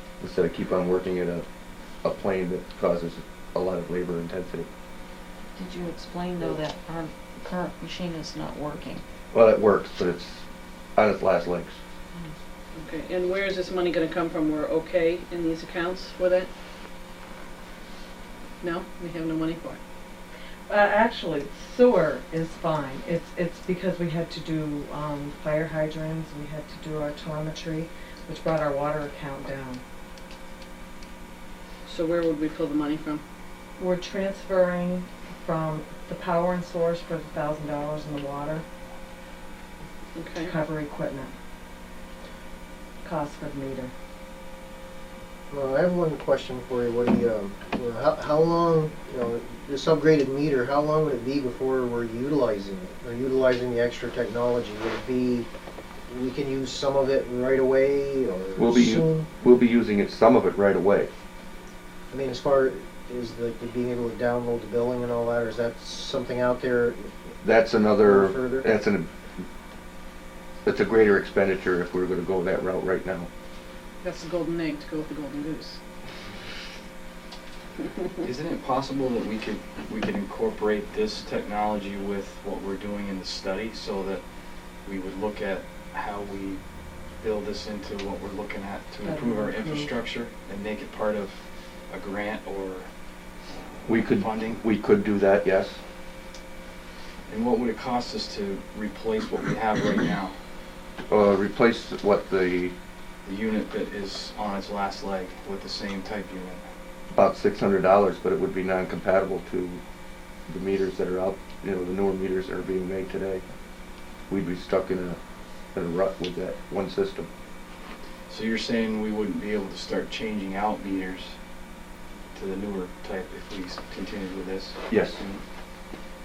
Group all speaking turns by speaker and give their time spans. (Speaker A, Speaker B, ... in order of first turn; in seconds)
Speaker A: 0.2-1.4, 2.0-4.7, 9.3-10.4, 10.9-11.8, 58.6-61.1, 67.4-69.1, 70.6-73.3, 93.8-95.8, 101.1-102.7, 107.1-109.8, 110.5-113.4, 114.3-115.2, 115.7-117.3, 124.9-125.2
Speaker B: 5.5-9.0
Speaker C: 12.7-16.5, 18.6-19.8, 31.9-33.2, 40.1-40.5, 74.0-75.8
Speaker D: 20.7-29.8, 33.8-38.6, 40.4-41.3, 43.0-43.9, 89.0-89.9
Speaker E: 45.5-55.5, 56.1-59.3, 62.1-67.1, 68.0-68.7
Speaker F: 78.2-84.2, 84.8-86.6, 87.2-92.9, 93.9-94.6, 97.3-100.3, 103.2-106.6, 118.3-121.3, 122.3-125.4